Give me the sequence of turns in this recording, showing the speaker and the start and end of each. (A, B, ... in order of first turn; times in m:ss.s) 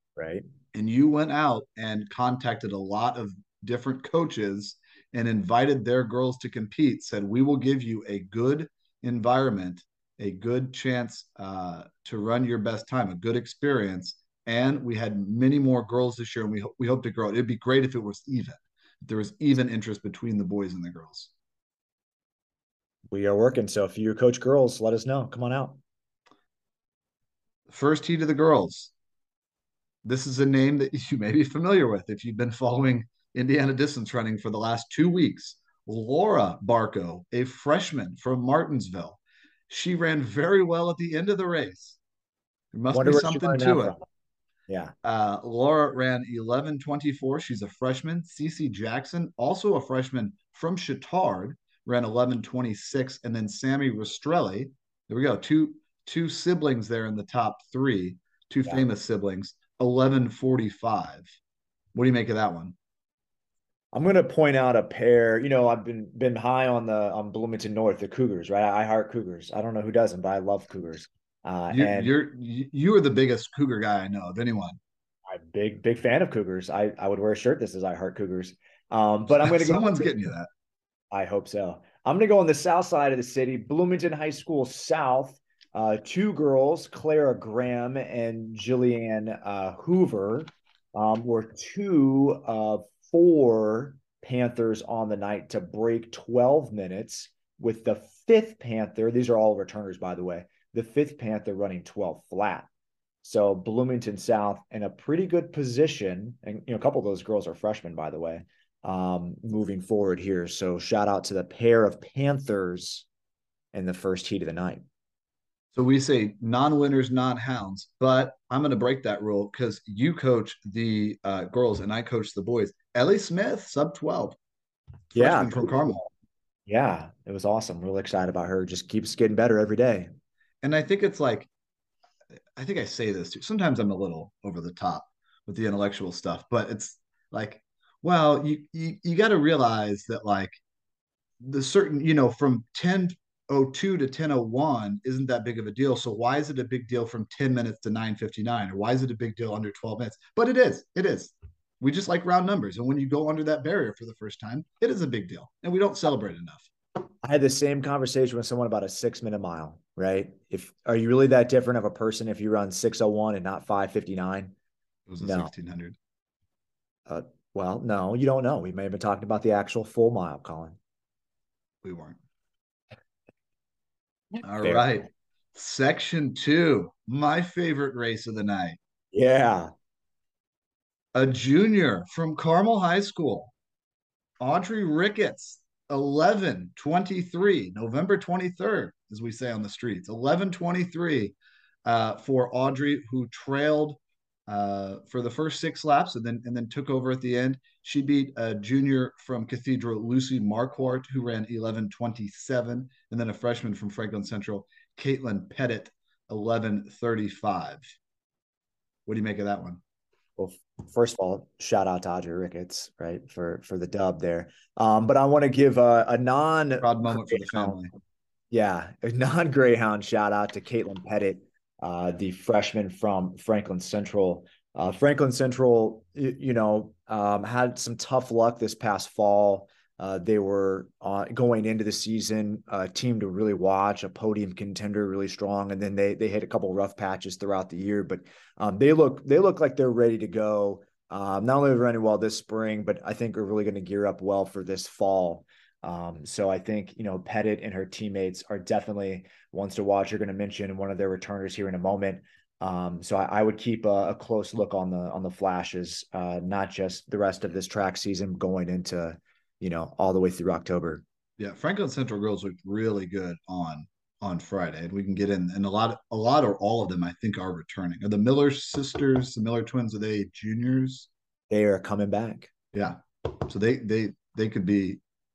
0:00.2-0:00.4 A
0:00.7-0:21.3 B
0:23.1-0:25.8 A
0:27.7-0:28.9 B
0:30.0-0:42.0 B
0:42.7-0:44.0 B
0:42.9-0:44.0 A
0:44.7-0:44.9 A
0:45.0-1:01.3 B
1:01.9-1:02.7 B
1:03.9-1:12.1 A
1:11.7-1:14.8 B
1:15.3-1:20.1 A
1:19.3-1:20.5 B
1:21.1-1:42.7 A
1:43.2-1:53.0 A
1:53.7-1:54.8 A
1:55.7-2:04.4 B
2:05.1-2:06.0 B
2:05.1-2:06.1 A
2:06.7-2:10.1 A
2:10.6-2:11.5 B
2:12.6-2:20.6 B
2:21.4-2:36.7 B
2:37.2-2:44.5 A
2:45.1-2:45.9 B
2:45.2-2:45.5 A
2:47.0-2:50.8 A
2:51.8-2:52.2 B
2:54.3-2:54.9 A
2:54.4-2:58.8 B
2:59.1-2:59.7 A
3:01.1-3:03.5 B
3:04.4-3:27.8 B
3:29.0-3:29.8 B
3:30.4-3:37.8 A
3:36.8-3:37.9 B
3:38.5-4:21.0 A
4:21.4-4:31.1 B
4:31.5-4:32.5 A
4:32.7-4:35.0 B